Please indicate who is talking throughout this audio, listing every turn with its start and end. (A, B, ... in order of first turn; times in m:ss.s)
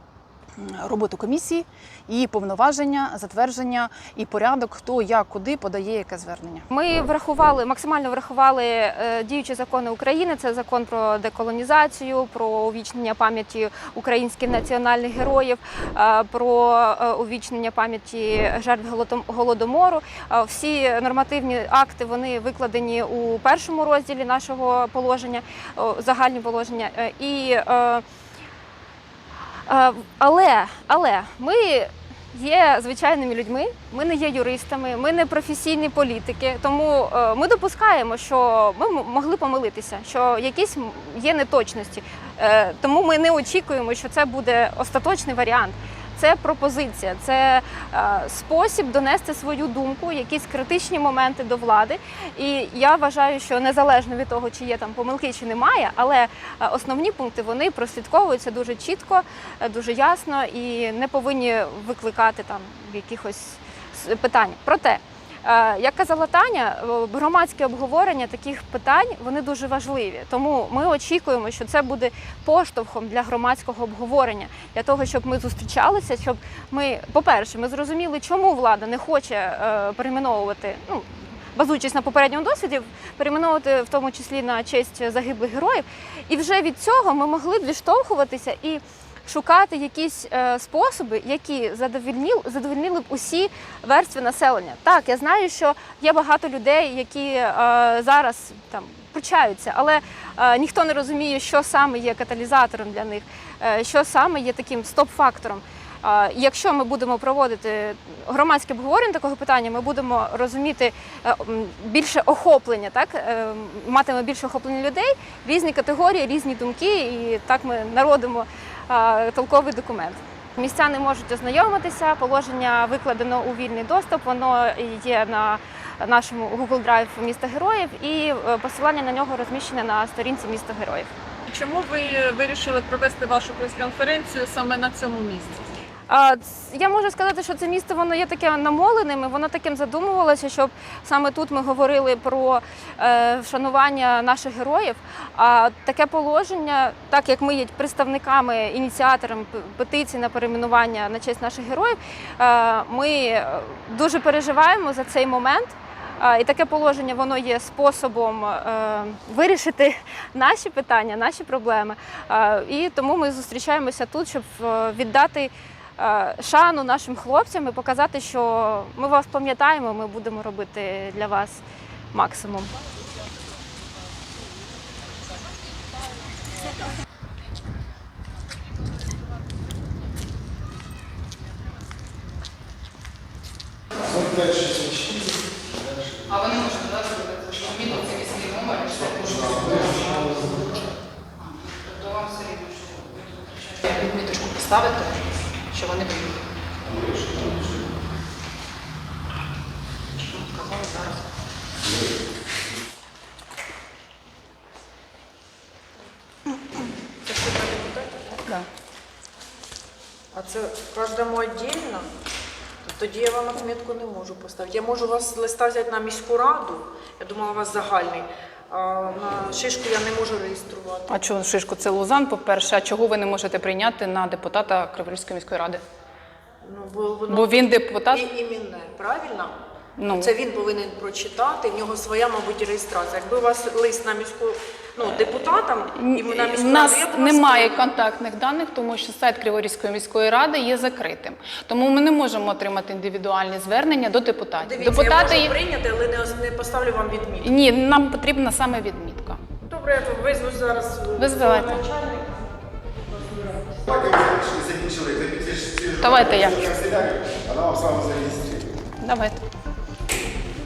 0:00.6-0:06.6 A
0:06.7-0:28.0 B
0:29.7-2:11.1 B
2:11.5-2:15.5 C
2:16.1-2:52.7 B
3:04.1-3:05.4 D
3:06.2-3:10.8 A
3:10.1-3:10.5 D
3:11.4-3:16.4 A
3:17.0-3:17.8 A
3:20.2-3:21.2 A
3:27.2-3:28.4 E
3:30.3-3:32.0 E
3:32.8-3:41.1 E
3:41.1-3:45.8 A
3:46.6-3:49.5 E
3:47.3-3:48.2 A
3:50.0-3:50.3 A
3:50.1-3:57.8 E
3:55.9-4:05.5 A
4:04.6-4:07.6 E
4:07.4-4:09.4 A
4:09.7-4:14.5 E
4:11.2-4:11.8 A
4:14.3-4:15.8 D
4:15.8-4:17.0 A
4:17.4-4:18.6 D
4:19.0-4:19.4 A